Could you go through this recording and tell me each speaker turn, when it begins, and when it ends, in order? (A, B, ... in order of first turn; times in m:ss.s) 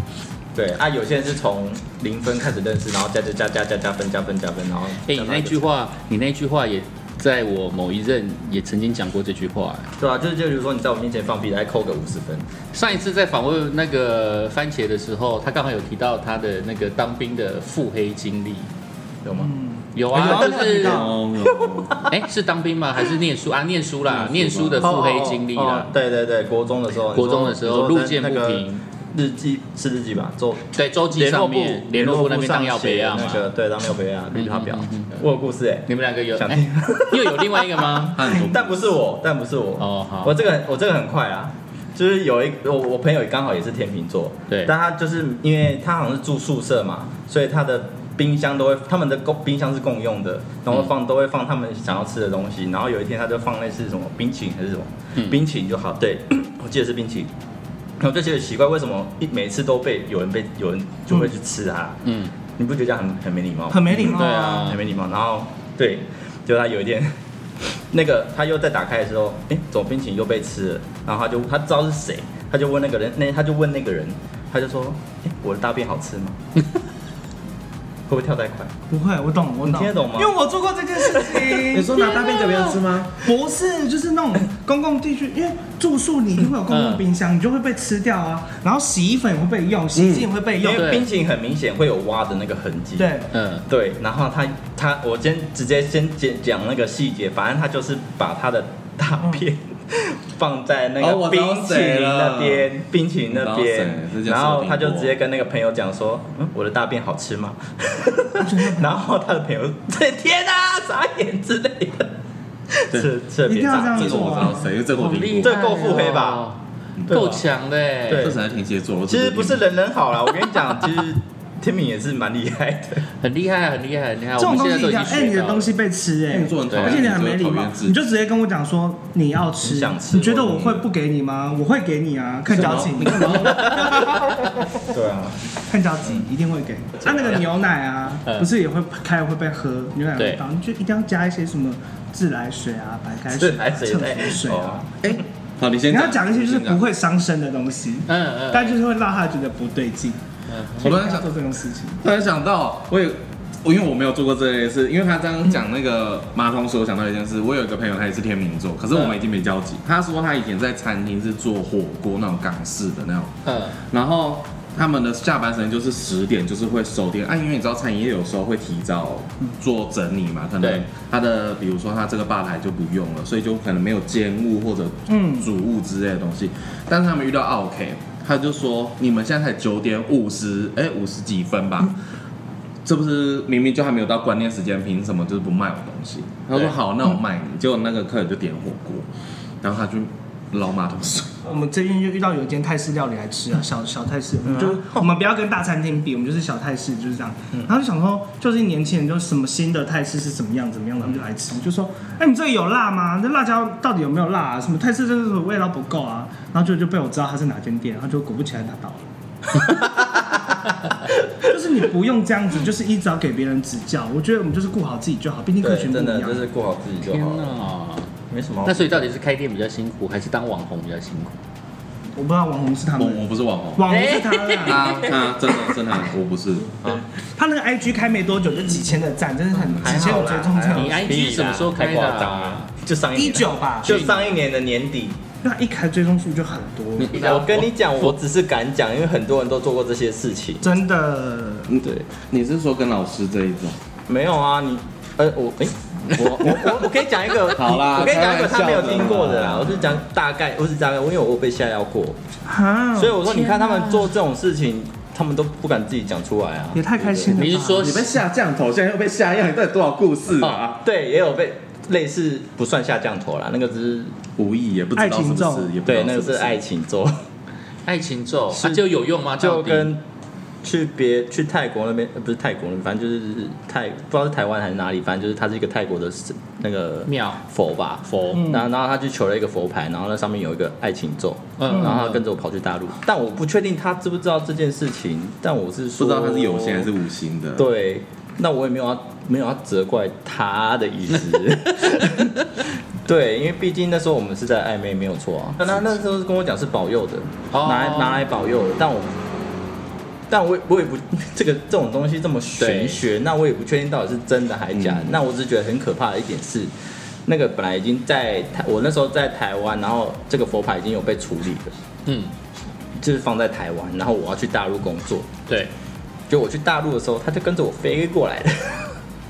0:00.5-0:05.6 A
0:05.0-0:09.9 B
0:10.0-0:12.5 A
0:12.7-0:18.7 B
0:19.2-0:19.5 A
0:19.3-0:21.1 C
0:19.9-0:21.1 B
0:20.1-0:20.7 A
0:20.2-0:22.0 D
0:21.4-0:22.1 A
0:22.1-0:25.9 B
0:24.1-0:24.9 D
0:24.8-0:57.3 A
0:27.1-0:28.8 B
0:30.7-0:33.5 B
0:34.3-0:35.2 B
0:35.9-0:38.3 B
0:38.1-0:38.9 D
0:39.8-0:40.3 B
0:58.0-1:02.0 A
1:02.0-1:02.3 B
1:02.6-1:07.2 A
1:03.7-1:04.7 C
1:04.1-1:04.8 B
1:07.7-1:16.4 A
1:18.1-1:18.7 A
1:18.9-1:22.2 C
1:19.6-1:20.3 A
1:21.0-1:21.6 A
1:21.7-1:23.2 D
1:22.1-1:22.7 B
1:23.2-1:30.9 C
1:26.7-1:27.0 B
1:29.9-1:30.3 D
1:30.6-1:52.1 A
1:30.8-1:31.1 B
1:33.0-1:33.3 C
1:33.3-1:33.6 B
1:41.0-1:42.7 D
1:43.3-1:45.2 D
1:48.4-1:48.9 C
1:52.7-1:54.5 A
1:53.4-1:54.8 C
1:53.8-1:55.6 D
1:54.9-1:58.3 B
1:55.4-1:56.4 A
1:57.1-1:57.4 A
1:58.1-1:58.4 A
1:58.2-1:59.6 D
1:59.1-2:03.0 A
2:03.2-2:05.7 B
2:04.4-2:14.4 C
2:06.3-2:08.0 D
2:06.7-2:07.0 A
2:09.6-2:10.7 A
2:10.5-2:10.8 D
2:12.5-2:13.8 D
2:13.6-2:14.2 A
2:14.8-2:15.4 A
2:15.7-2:24.9 C
2:16.0-2:16.3 A
2:17.1-2:17.4 A
2:20.2-2:20.4 B
2:23.3-2:24.9 A
2:25.0-2:26.8 D
2:25.9-2:30.2 C
2:28.0-2:28.8 B
2:30.5-2:30.9 B
2:30.8-2:32.0 C
2:30.8-2:31.3 D
2:32.0-2:43.3 D
2:43.4-2:43.8 B
2:43.9-3:01.9 D
2:50.6-2:50.9 B
2:55.1-2:55.5 C
3:02.8-3:09.0 D
3:09.6-3:11.3 D
3:11.4-3:29.0 C
3:14.4-3:15.0 A
3:29.6-3:31.1 A
3:31.4-3:36.4 C
3:35.6-3:37.6 A
3:37.0-3:38.1 B
3:38.3-3:39.0 A
3:38.6-3:41.4 B
3:42.2-3:43.2 C
3:43.0-3:43.8 D
3:43.8-3:45.0 C
3:43.9-3:45.8 B
3:44.6-3:47.0 D
3:47.4-3:51.1 C
3:49.7-3:55.2 A
3:50.7-3:52.7 B
3:53.1-3:54.0 C
3:53.8-3:54.2 B
3:55.4-3:57.5 C
3:57.0-3:57.7 D
3:57.1-4:00.7 A
4:00.6-4:01.7 C
4:01.7-4:03.8 D
4:04.1-4:12.2 A
4:06.1-4:06.8 D
4:07.5-4:09.9 D
4:12.5-4:13.9 C
4:12.9-4:17.3 A
4:16.7-4:18.0 C
4:17.3-4:18.1 B
4:17.7-4:20.8 D
4:20.8-4:24.1 A
4:24.4-4:26.6 D
4:25.0-4:25.7 C
4:25.8-4:27.1 A
4:27.8-4:29.9 B
4:28.5-4:28.8 A
4:29.4-4:30.0 A
4:30.6-4:46.9 A
4:37.0-4:38.6 B
4:38.3-4:38.6 C
4:41.6-4:42.2 B
4:41.7-4:41.9 C
4:46.0-4:47.6 D
4:47.6-4:52.4 A
4:53.0-4:59.2 A
4:57.5-4:58.2 B
5:00.3-5:06.7 A
5:02.6-5:03.0 B
5:04.7-5:05.2 D
5:07.2-5:11.8 A
5:12.0-5:12.3 B
5:13.0-5:15.3 A
5:16.3-5:19.0 A